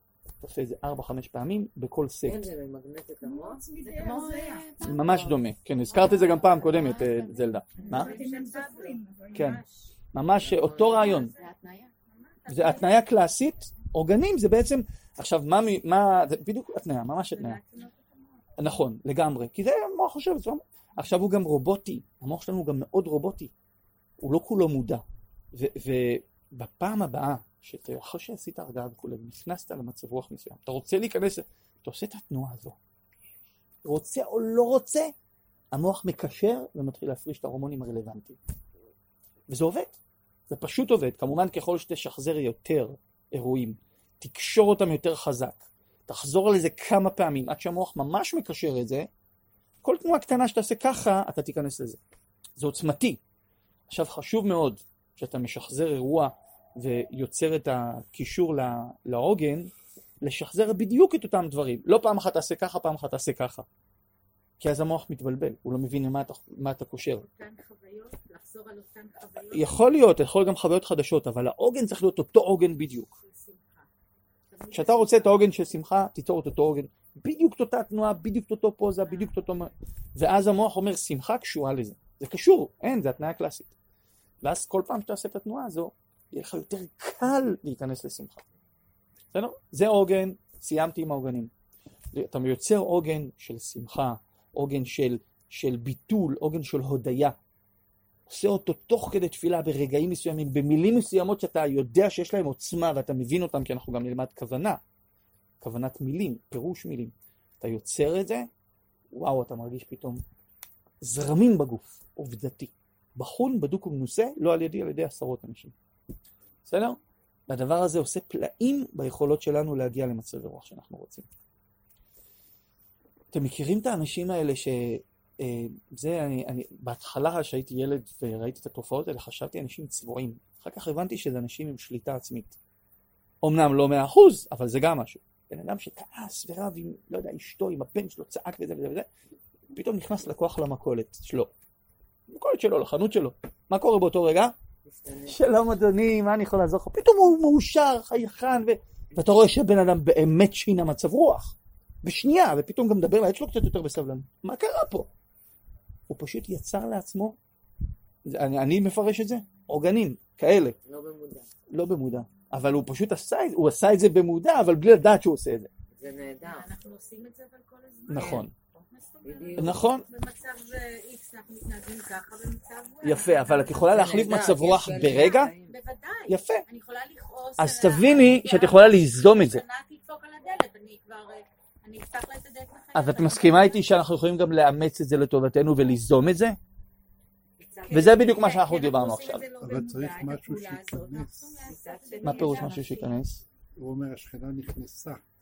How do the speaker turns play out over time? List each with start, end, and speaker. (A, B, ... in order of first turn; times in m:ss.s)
0:00.4-0:02.4 A
0:02.2-0:03.7 B
0:03.2-0:04.7 C
0:03.8-0:08.3 D
0:04.0-0:04.3 E
0:04.8-0:08.1 A
0:06.0-0:07.1 E
0:07.8-0:09.9 E
0:07.9-0:09.6 C
0:09.3-0:09.6 A
0:10.1-0:11.3 A
0:10.4-0:11.1 B
0:10.8-0:11.5 E
0:11.3-0:11.9 D
0:12.1-0:13.4 E
0:12.5-0:17.6 A
0:17.3-0:18.2 E
0:18.6-0:23.5 A
0:24.2-0:32.8 A
0:33.8-0:35.1 A
0:35.7-0:38.4 A
0:39.5-0:40.0 A
0:40.5-0:49.1 A
0:49.8-0:52.0 A
0:52.6-0:53.2 A
0:53.9-0:59.7 A
1:00.2-1:03.7 A
1:04.6-1:07.2 A
1:07.2-1:09.7 E
1:09.5-1:13.2 A
1:13.2-1:13.9 E
1:14.5-1:15.4 E
1:14.7-1:23.7 A
1:19.1-1:19.5 E
1:24.4-1:28.4 A
1:29.3-1:31.5 A
1:32.1-1:37.4 A
1:38.3-1:44.8 A
1:45.6-1:48.5 A
1:49.1-1:50.2 A
1:51.0-1:55.7 A
1:56.7-2:01.3 A
2:03.3-2:12.6 A
2:13.4-2:19.1 A
2:19.8-2:21.5 A
2:22.3-2:24.6 A
2:24.9-2:25.4 B
2:25.2-2:35.1 A
2:36.1-2:37.4 A
2:38.3-2:40.8 A
2:40.9-2:41.5 B
2:41.7-2:45.7 A
2:46.0-2:46.7 B
2:46.4-2:54.3 E
2:48.1-2:48.5 A
2:48.2-2:48.4 B
2:49.2-2:49.8 B
2:49.6-2:50.0 A
2:53.0-2:55.5 A
2:53.9-2:55.8 B
2:55.0-3:03.9 E
2:56.3-2:56.6 A
2:57.6-2:59.6 A
3:02.9-3:06.6 A
3:07.6-3:08.4 D
3:07.6-3:13.2 E
3:07.9-3:09.4 A
3:09.6-3:11.6 F
3:11.6-3:13.2 D
3:12.2-3:13.4 A
3:13.8-3:15.2 F